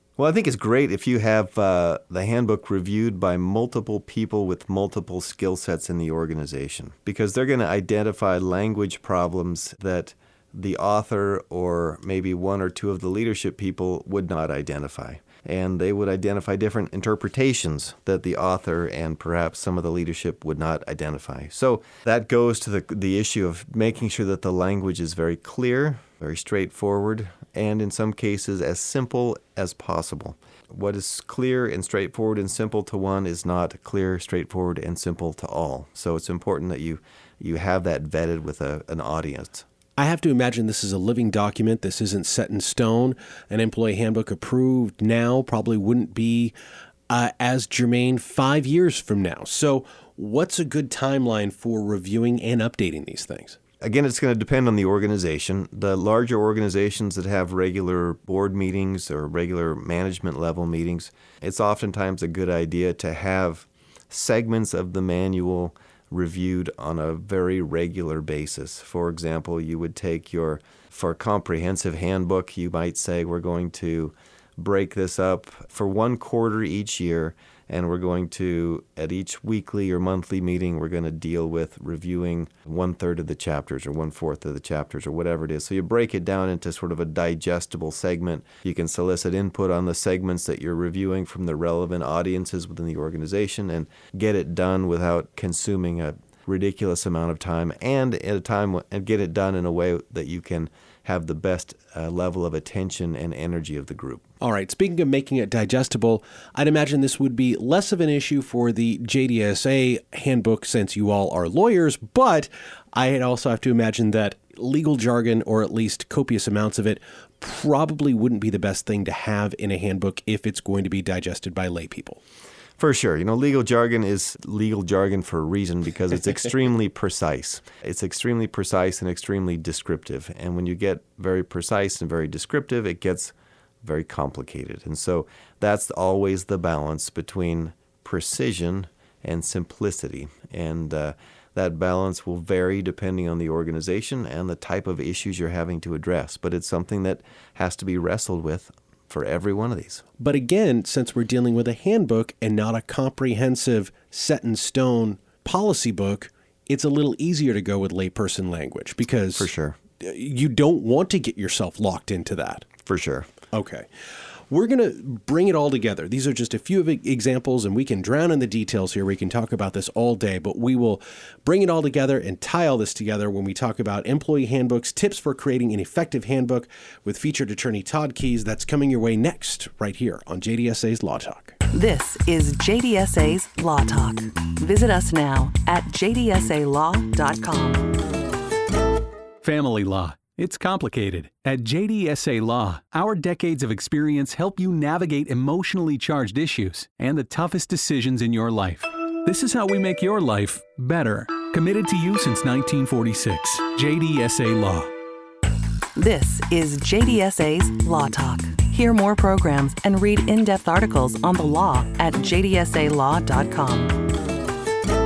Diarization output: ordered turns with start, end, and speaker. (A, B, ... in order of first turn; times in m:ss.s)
0:00.2-0:39.6 A
0:40.0-0:46.5 B
0:47.1-0:53.6 B
0:53.8-1:44.2 A
1:44.4-2:02.2 B
2:02.8-2:30.0 A
2:30.2-2:39.5 B
2:39.4-2:39.8 A
2:40.0-2:42.7 B
2:42.8-2:43.3 A
2:43.5-2:43.9 B
2:44.5-3:01.6 B
3:01.7-3:07.9 C
3:09.4-3:24.9 D
3:26.0-3:33.9 C